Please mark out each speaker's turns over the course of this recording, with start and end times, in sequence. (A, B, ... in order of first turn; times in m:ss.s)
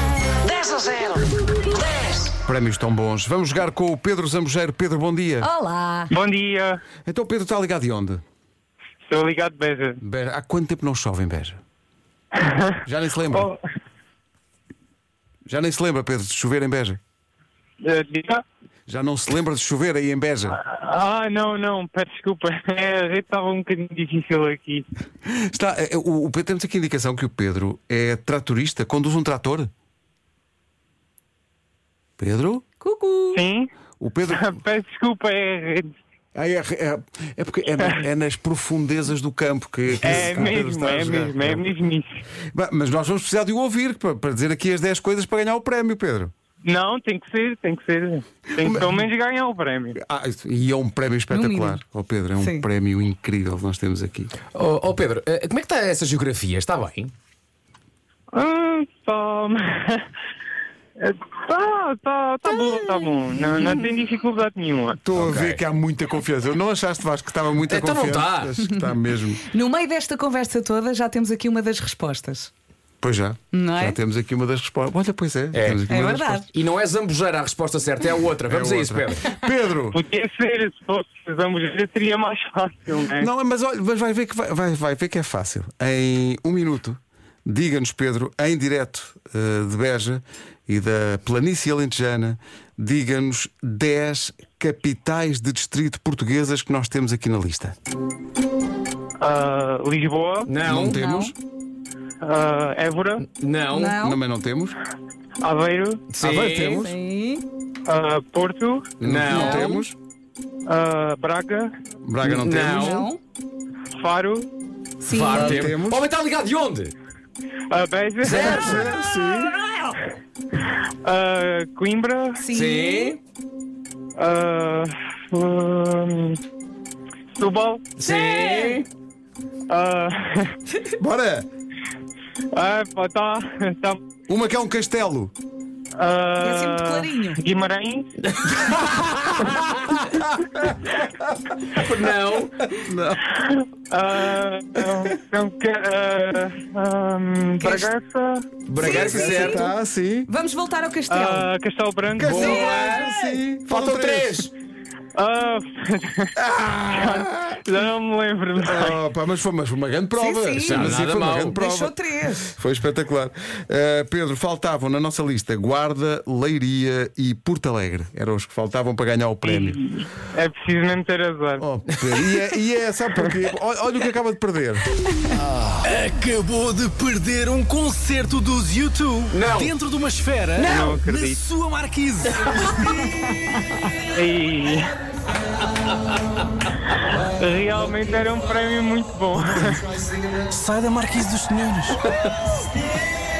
0:02.4-0:05.5 A
0:05.4-0:06.1 B
0:06.1-0:06.8 C
0:07.0-0:08.2 A
0:09.0-0:10.0 C
0:10.0-0:11.6 A
0:12.3-0:12.8 C
0:12.8-0:13.5 A
0:13.3-0:13.6 C
0:15.5-0:17.0 A
0:17.8-0:18.4 C
0:18.9-0:20.6 A
0:20.6-0:24.9 C
0:25.2-0:29.7 A
0:32.2-0:32.6 A
0:32.8-0:33.4 B
0:33.3-0:33.7 C
0:34.0-0:34.6 A
0:34.3-0:35.9 C
0:36.3-0:41.7 A
0:40.0-0:42.2 C
0:42.5-0:46.3 A
0:46.6-0:50.0 C
0:48.6-0:49.0 A
0:50.0-0:54.3 A
0:51.3-0:51.8 B
0:52.4-0:52.6 B
0:54.5-0:57.1 D
0:58.3-1:00.1 C
1:01.0-1:05.0 C
1:02.5-1:03.8 B
1:05.0-1:09.4 A
1:05.2-1:05.6 D
1:07.7-1:08.5 D
1:08.6-1:12.5 B
1:13.0-1:16.4 A
1:13.5-1:14.0 B
1:15.5-1:15.8 D
1:15.9-1:16.5 B
1:16.5-1:19.2 D
1:18.4-1:20.0 A
1:19.9-1:23.3 C
1:23.2-1:37.8 A
1:39.2-1:40.5 C
1:40.4-1:41.0 D
1:40.6-1:41.3 A
1:40.8-1:41.3 B
1:42.2-1:43.2 C
1:43.2-1:44.0 D
1:43.7-1:44.2 B
1:44.0-1:44.8 A
1:45.4-1:46.0 C
1:46.1-1:46.9 D
1:46.2-1:47.0 A
1:46.7-1:47.4 B
1:47.8-1:48.9 C
1:49.0-1:50.0 A
1:49.0-1:49.8 D
1:49.3-1:49.8 B
1:50.6-1:51.7 C
1:52.0-1:53.0 A
1:52.2-1:53.1 D
1:52.7-1:53.2 B
1:54.0-1:54.5 C
1:55.0-1:55.7 B
1:55.0-1:56.9 D
1:55.3-1:56.1 A
1:57.7-1:58.9 C
1:58.2-1:59.0 D
1:58.2-1:59.6 A
1:59.4-1:59.9 B
2:01.0-2:02.4 C
2:02.4-2:03.2 B
2:02.5-2:03.2 D
2:04.2-2:06.4 C
2:07.4-2:07.9 C
2:08.0-2:08.8 D
2:08.0-2:08.8 B
2:09.7-2:10.6 C
2:11.0-2:11.5 A
2:12.5-2:14.0 C
2:14.3-2:15.3 A
2:15.9-2:18.1 C
2:16.4-2:17.4 B
2:18.2-2:20.0 D
2:20.4-2:21.5 A
2:21.7-2:22.7 D
2:22.7-2:23.2 A
2:23.3-2:28.6 C
2:27.6-2:27.9 B
2:28.7-2:29.7 D
2:28.8-2:29.7 B
2:28.8-2:30.3 A
2:30.3-2:31.5 B
2:31.1-2:32.5 C
2:32.2-2:34.5 A
2:32.2-2:34.5 D
2:32.3-2:33.1 B
2:35.1-2:36.4 C
2:36.4-2:37.6 A
2:36.9-2:39.0 C
2:38.6-2:49.8 A
2:40.2-2:42.6 B
2:40.6-2:41.6 D
2:49.4-2:51.6 C
2:51.6-2:54.8 A
2:52.0-2:52.4 D
2:55.8-3:02.9 E
2:59.3-2:59.7 D
3:00.6-3:01.0 B
3:00.6-3:01.4 C
3:04.1-3:04.9 C
3:06.9-3:09.8 C
3:10.5-3:12.0 E